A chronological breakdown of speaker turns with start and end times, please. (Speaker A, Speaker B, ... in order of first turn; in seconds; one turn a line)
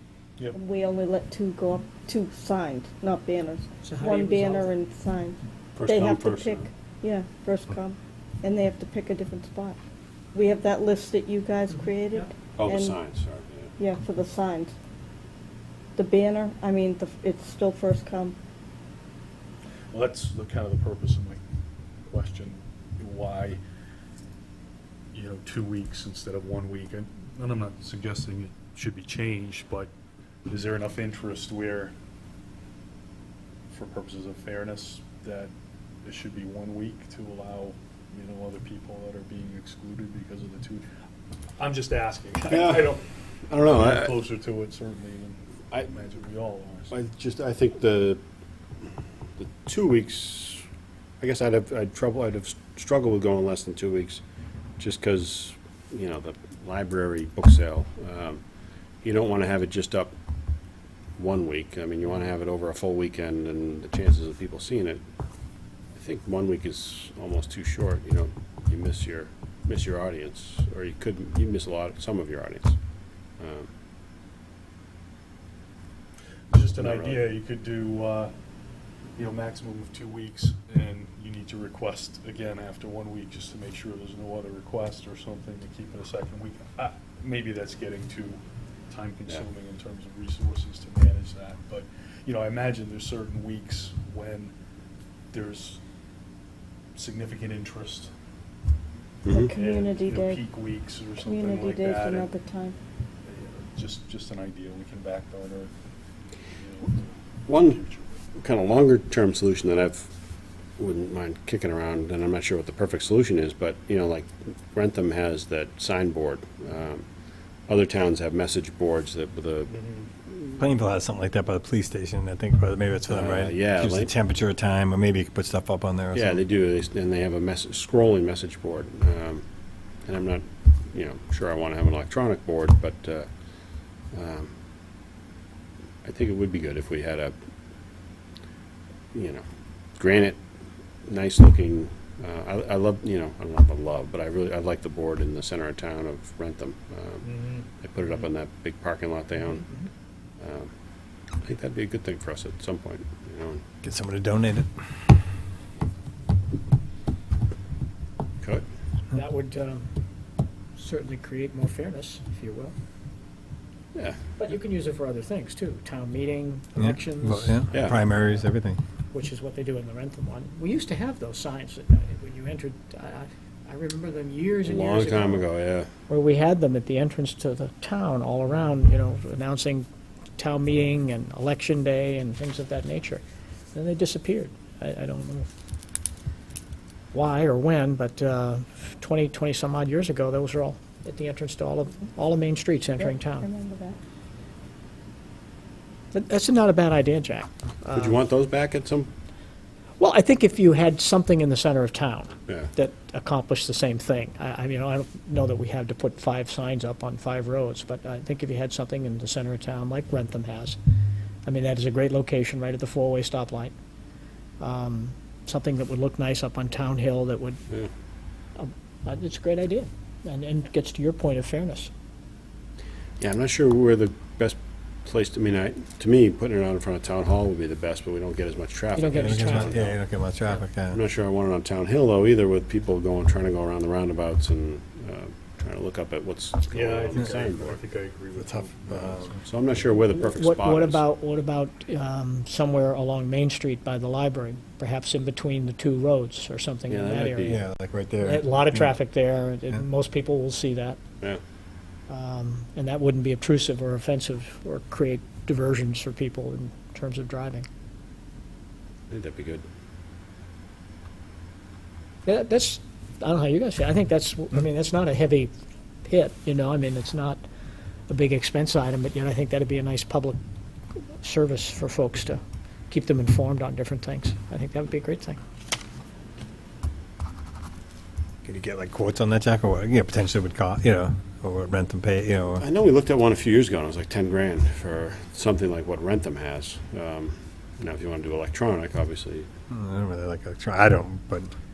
Speaker A: 0.5-9.8
Speaker B: 3.8-4.7
Speaker C: 5.8-6.7
Speaker A: 10.3-13.0
Speaker C: 12.6-13.7
Speaker A: 13.8-14.8
Speaker A: 16.0-18.4
Speaker D: 19.9-21.4
Speaker D: 22.1-23.6
Speaker D: 25.1-29.9
Speaker D: 30.5-31.9
Speaker D: 33.7-35.5
Speaker D: 36.0-40.9
Speaker D: 41.6-43.0
Speaker C: 42.5-44.2
Speaker D: 43.6-47.0
Speaker C: 46.9-48.2
Speaker C: 49.4-50.7
Speaker C: 51.2-54.2
Speaker C: 54.8-58.4
Speaker C: 59.0-60.1
Speaker C: 61.2-65.0
Speaker C: 65.9-72.8
Speaker C: 73.4-73.7
Speaker D: 76.5-78.3
Speaker C: 76.8-77.3
Speaker D: 79.2-94.5
Speaker D: 95.3-95.8
Speaker D: 97.0-98.1
Speaker A: 99.3-100.4
Speaker D: 99.4-102.3
Speaker A: 101.2-102.8
Speaker D: 103.2-105.7
Speaker D: 106.5-108.1
Speaker C: 107.5-107.8
Speaker C: 108.4-110.1
Speaker C: 110.8-117.1
Speaker C: 117.7-119.7
Speaker E: 120.6-126.4
Speaker C: 123.1-124.1
Speaker C: 126.1-129.4
Speaker C: 130.0-133.3
Speaker C: 134.1-134.5
Speaker C: 136.0-137.3
Speaker C: 139.1-139.4
Speaker C: 140.0-140.4
Speaker C: 141.1-149.7
Speaker D: 147.2-147.6
Speaker C: 150.4-150.7
Speaker C: 151.4-153.6
Speaker E: 153.8-154.8
Speaker C: 158.4-158.7
Speaker B: 159.1-159.9
Speaker B: 160.8-162.8
Speaker C: 163.9-164.2
Speaker B: 164.4-167.8
Speaker E: 166.8-168.8
Speaker C: 167.7-168.0
Speaker B: 169.1-175.5
Speaker C: 174.6-175.9
Speaker B: 176.1-183.2
Speaker B: 183.7-185.5
Speaker B: 187.1-193.5
Speaker A: 193.0-194.0
Speaker B: 196.1-198.2
Speaker C: 197.9-199.1
Speaker B: 200.0-210.8
Speaker B: 211.5-213.7
Speaker B: 214.6-217.6
Speaker B: 218.6-221.9
Speaker C: 223.2-229.8
Speaker B: 228.9-230.0
Speaker E: 229.1-231.0
Speaker C: 230.9-237.8
Speaker D: 236.7-239.4
Speaker E: 238.4-239.3
Speaker C: 239.5-241.0
Speaker B: 240.1-247.6
Speaker C: 246.9-247.6
Speaker E: 247.4-248.9
Speaker B: 248.2-251.0
Speaker B: 252.1-257.7
Speaker C: 259.1-259.6
Speaker B: 262.3-265.5
Speaker B: 266.1-267.4
Speaker B: 268.1-270.4
Speaker B: 271.2-275.4
Speaker E: 278.4-282.6
Speaker C: 282.6-289.5
Speaker E: 289.7-291.5